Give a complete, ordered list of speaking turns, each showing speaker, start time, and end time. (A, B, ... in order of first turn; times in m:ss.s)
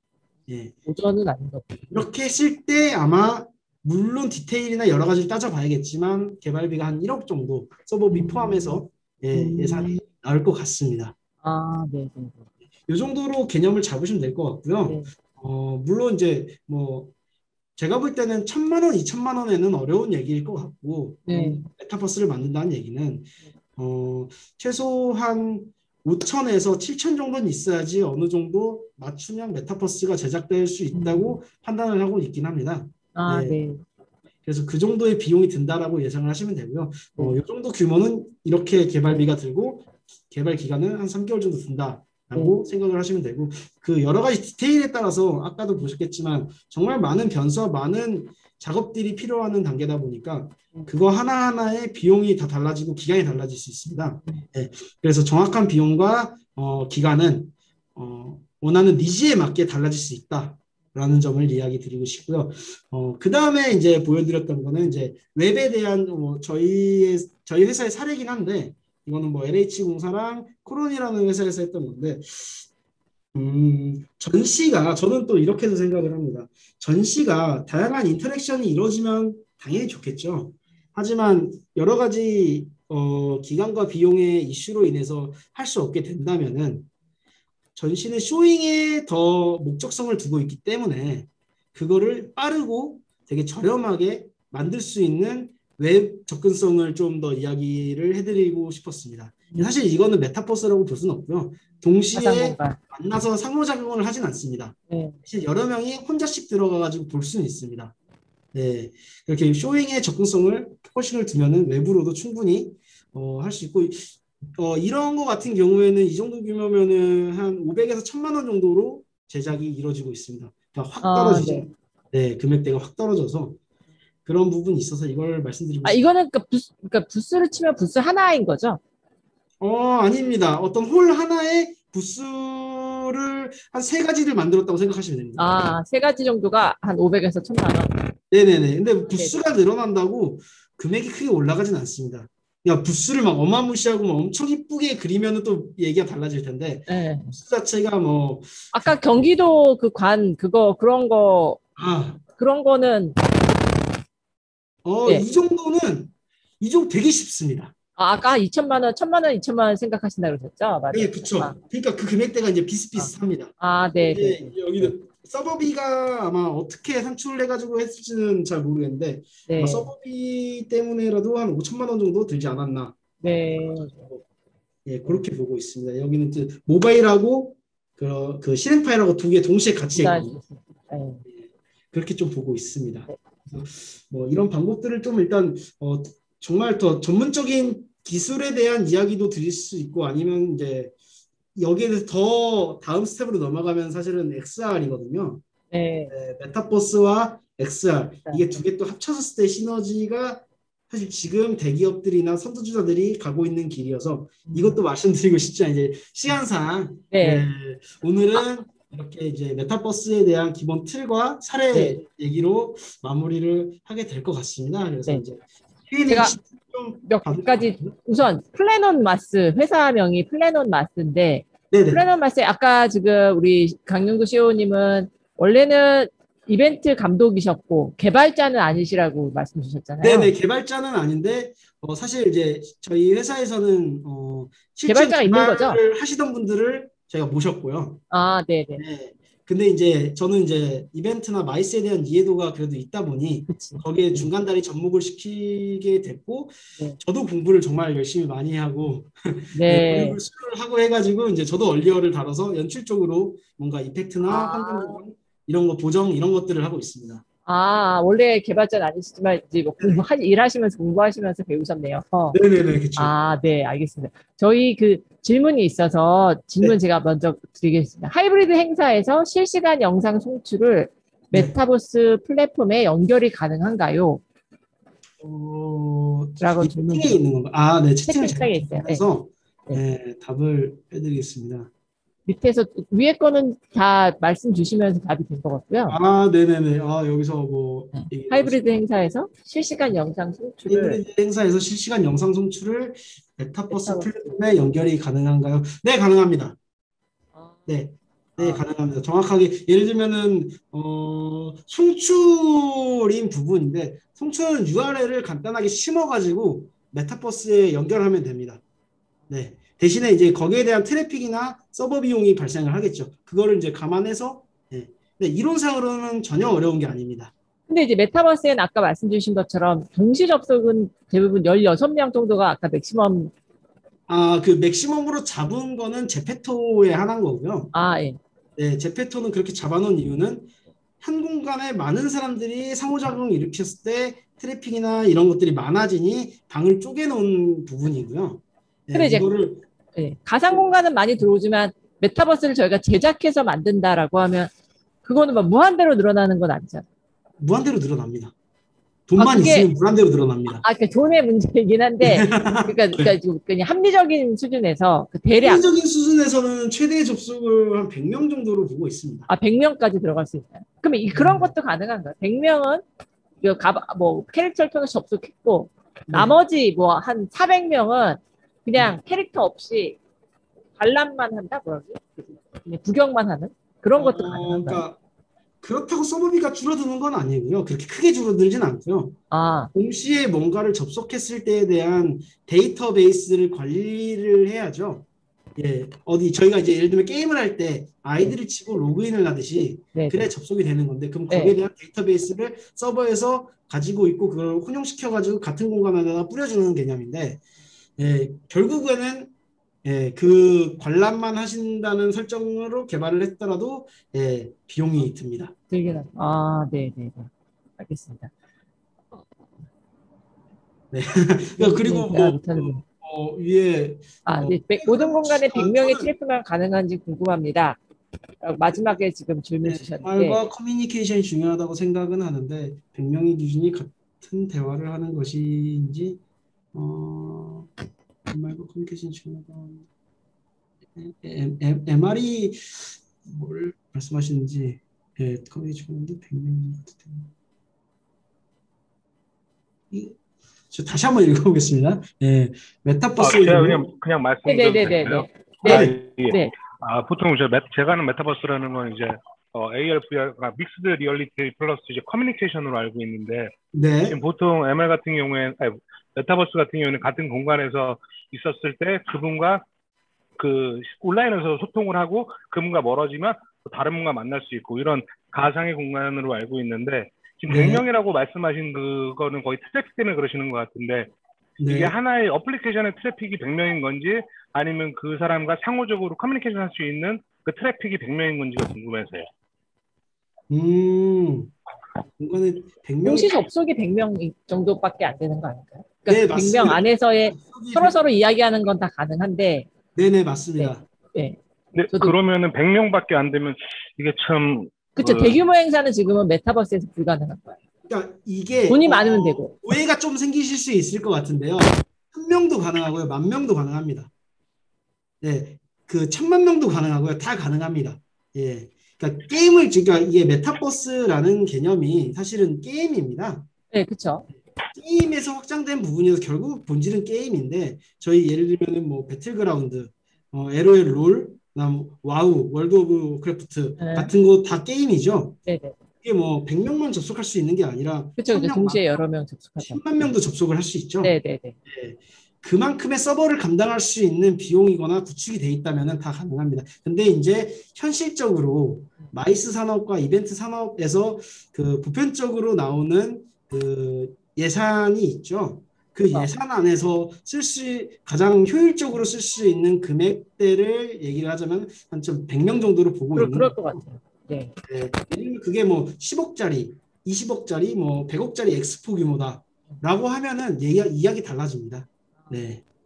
0:00.5-0:00.7 A
0:00.8-0:02.0 B
0:01.9-0:11.1 A
0:08.1-0:08.8 B
0:09.3-0:10.0 B
0:11.4-0:12.4 B
0:12.9-0:17.1 A
0:14.8-0:15.1 B
0:17.8-0:33.6 A
0:21.3-0:21.6 B
0:30.9-0:31.4 B
0:33.1-0:33.8 B
0:34.4-1:12.7 A
1:13.3-1:26.9 A
1:27.8-1:47.9 A
1:42.1-1:42.8 B
1:44.9-1:45.2 B
1:48.5-2:03.6 A
2:01.0-2:01.7 B
2:04.2-2:06.0 A
2:05.8-2:08.8 B
2:09.6-2:15.6 A
2:15.4-2:17.9 B
2:18.3-2:29.0 A
2:19.1-2:19.4 B
2:26.9-2:27.3 B
2:28.7-2:31.6 B
2:31.8-2:32.2 A
2:32.4-2:33.2 B
2:34.8-2:37.7 A
2:38.0-2:41.6 B
2:40.9-2:53.0 A
2:43.0-2:44.9 B
2:49.5-2:49.9 B
2:53.2-2:54.1 B
2:53.8-2:54.2 A
2:54.8-3:00.4 A
3:00.0-3:01.2 B
3:01.3-3:10.9 A
3:11.6-3:15.4 A
3:15.7-3:16.1 B
3:16.1-3:37.9 A
3:18.3-3:18.6 B
3:24.5-3:24.8 B
3:27.1-3:27.4 B
3:31.7-3:32.0 B
3:36.1-3:36.4 B
3:37.0-3:50.3 B
3:41.7-3:42.0 A
3:50.0-3:58.0 A
3:54.9-3:55.8 B
3:58.1-3:58.8 B
3:58.8-4:17.2 A
4:03.5-4:04.3 B
4:09.5-4:10.2 B
4:14.2-4:15.0 B
4:17.5-4:22.4 B
4:19.8-4:20.0 A
4:22.3-4:23.1 A
4:23.0-4:34.2 B
4:35.2-4:41.7 A
4:36.4-4:37.2 B
4:38.1-4:39.0 B
4:42.3-4:46.0 B
4:45.9-4:48.6 A
4:47.9-4:51.0 B
4:50.7-4:56.6 A
4:53.7-4:54.1 B
4:57.7-5:08.6 A
5:09.3-5:17.3 A
5:17.7-5:23.3 B
5:24.1-5:27.7 A
5:27.7-5:28.2 B
5:28.6-5:39.6 A
5:38.9-5:39.3 B
5:39.9-5:44.5 B
5:45.0-5:46.8 B
5:47.4-5:48.3 A
5:49.1-5:50.6 A
5:49.2-5:49.7 B
5:50.6-5:55.6 B
5:52.0-5:53.1 A
5:55.4-5:59.3 A
5:59.3-6:02.8 B
6:01.1-6:01.5 A
6:03.4-6:10.0 B
6:06.1-6:06.4 A
6:10.8-6:14.8 B
6:14.0-6:15.0 A
6:15.6-6:19.2 A
6:19.3-6:19.7 B
6:19.7-6:25.0 A
6:25.6-6:37.4 A
6:29.9-6:30.2 B
6:31.3-6:31.6 B
6:38.0-6:39.3 A
6:39.8-6:45.5 A
6:45.7-6:48.3 B
6:50.9-6:56.1 A
6:51.6-6:52.8 B
6:54.2-6:57.8 B
6:58.4-7:00.4 B
6:59.6-7:06.2 A
7:06.7-7:07.7 A
7:08.3-7:09.9 A
7:10.9-7:17.3 A
7:19.9-7:20.2 A
7:20.7-7:23.9 A
7:23.2-7:33.5 C
7:24.4-7:26.5 B
7:25.6-7:26.0 A
7:33.7-7:34.2 A
7:34.0-7:39.6 C
7:40.4-7:51.1 C
7:47.5-7:47.8 A
7:51.6-7:51.9 A
7:51.6-7:59.3 C
8:00.5-8:01.5 A
8:02.2-8:03.3 A
8:03.0-8:09.7 B
8:06.1-8:08.0 A
8:09.9-8:10.8 A
8:10.6-8:11.4 B
8:11.7-8:15.4 C
8:15.0-8:17.6 B
8:17.8-8:24.1 A
8:18.7-8:19.6 B
8:25.2-8:33.5 A
8:33.7-8:34.3 B
8:34.7-8:45.4 A
8:43.8-8:44.1 B
8:45.4-8:45.8 B
8:46.0-8:49.0 A
8:48.2-8:49.8 B
8:49.6-8:51.2 A
8:51.0-8:51.6 B
8:51.7-9:13.8 A
9:13.1-9:14.5 B
9:14.6-9:22.6 A